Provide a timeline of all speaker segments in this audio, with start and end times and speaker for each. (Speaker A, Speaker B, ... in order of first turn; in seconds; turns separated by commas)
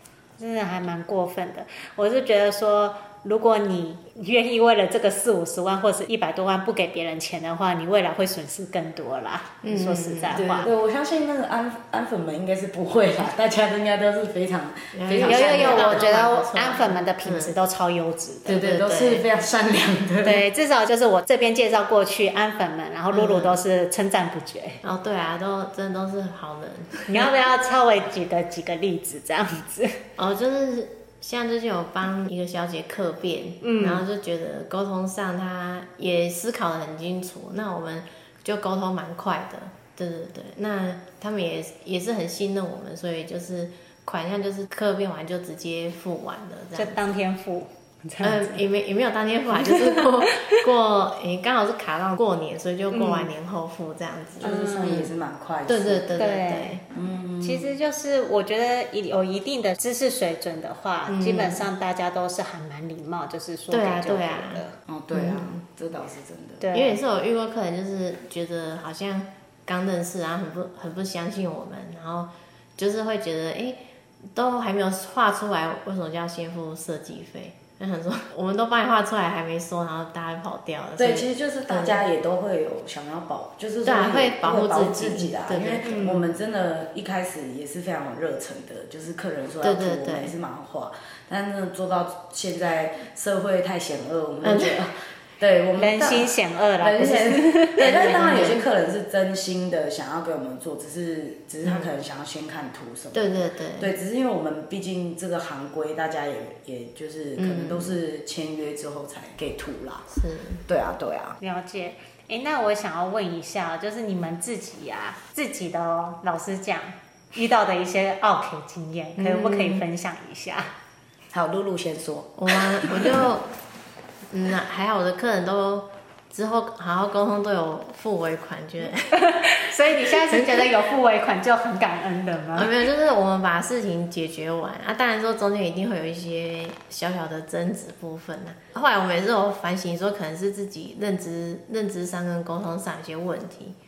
Speaker A: 0.4-10.7, Speaker B: 9.6-10.4, Speaker C: 10.3-16.1, Speaker B: 14.9-17.5, Speaker A: 15.2-18.6, Speaker C: 18.5-20.4, Speaker B: 18.5-19.3, Speaker A: 20.2-24.8, Speaker B: 23.1-23.6, Speaker B: 24.8-27.2, Speaker A: 27.1-30.0, Speaker B: 30.2-47.0, Speaker A: 33.6-34.0, Speaker A: 46.8-48.6, Speaker B: 48.2-55.1, Speaker A: 49.6-50.6, Speaker A: 52.9-53.3, Speaker C: 54.4-56.2, Speaker A: 54.4-55.1, Speaker B: 55.7-56.8, Speaker A: 56.2-56.8, Speaker C: 56.9-57.7, Speaker A: 57.4-64.8, Speaker B: 61.1-61.6, Speaker B: 63.7-65.6, Speaker C: 64.9-66.6, Speaker A: 66.6-67.0, Speaker B: 66.7-73.8, Speaker B: 74.3-82.0, Speaker C: 81.0-110.1, Speaker B: 83.8-86.1, Speaker A: 85.8-86.2, Speaker B: 89.6-90.3, Speaker B: 94.4-94.8, Speaker A: 95.8-98.2, Speaker B: 98.0-98.6, Speaker B: 103.1-103.9, Speaker B: 107.4-108.0, Speaker B: 110.1-110.6, Speaker C: 110.7-111.4, Speaker A: 111.4-120.7, Speaker B: 119.2-119.8, Speaker C: 121.3-123.3, Speaker B: 122.4-123.5, Speaker B: 124.3-129.2, Speaker A: 129.2-132.8, Speaker B: 132.6-143.8